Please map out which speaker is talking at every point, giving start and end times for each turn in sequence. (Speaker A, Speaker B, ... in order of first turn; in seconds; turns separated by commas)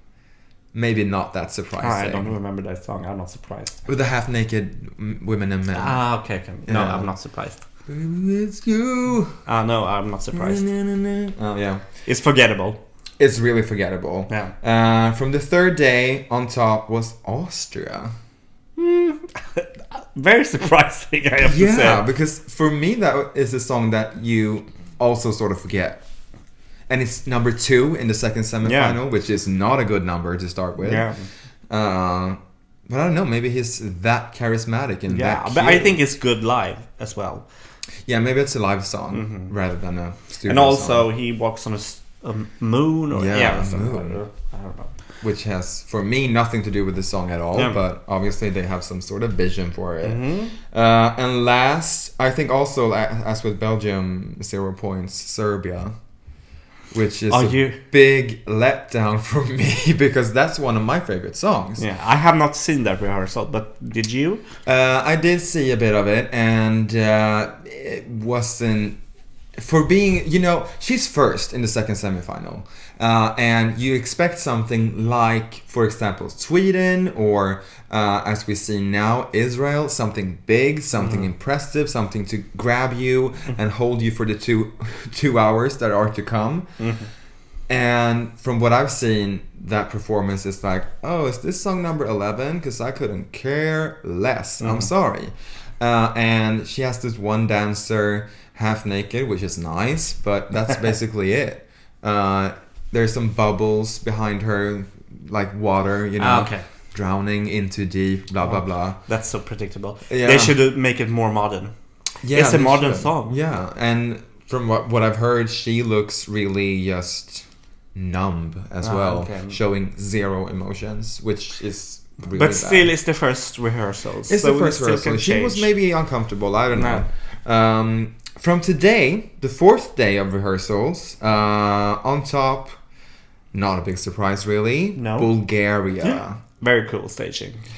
Speaker A: 0.7-2.4, Speaker B: 1.8-3.8, Speaker A: 3.8-6.0, Speaker B: 5.7-7.6, Speaker A: 6.7-7.1, Speaker A: 7.9-9.3, Speaker B: 9.4-10.7, Speaker A: 10.3-11.8, Speaker B: 12.1-12.8, Speaker A: 13.2-18.1, Speaker B: 14.3-14.5, Speaker B: 18.8-22.0, Speaker A: 21.4-26.0, Speaker A: 26.9-31.1, Speaker B: 28.6-29.0, Speaker B: 30.8-31.2, Speaker A: 31.7-36.0, Speaker B: 35.1-37.5, Speaker A: 38.0-41.1, Speaker B: 39.1-39.5, Speaker B: 40.5-44.9, Speaker A: 43.1-44.2, Speaker A: 45.2-55.9, Speaker B: 50.0-50.5, Speaker A: 56.9-61.8, Speaker B: 57.3-57.8, Speaker B: 61.8-64.4, Speaker A: 64.6-69.0, Speaker A: 69.6-86.7, Speaker B: 81.0-81.3, Speaker B: 86.8-87.1, Speaker A: 87.7-109.0, Speaker B: 94.6-94.9, Speaker B: 106.2-106.6, Speaker B: 108.5-111.7, Speaker A: 110.1-110.6, Speaker A: 112.2-122.9, Speaker B: 112.3-113.4, Speaker B: 118.8-119.6, Speaker B: 122.3-125.7, Speaker A: 124.3-132.7, Speaker B: 126.7-127.0, Speaker A: 133.5-136.4, Speaker B: 134.9-135.3, Speaker B: 136.0-137.6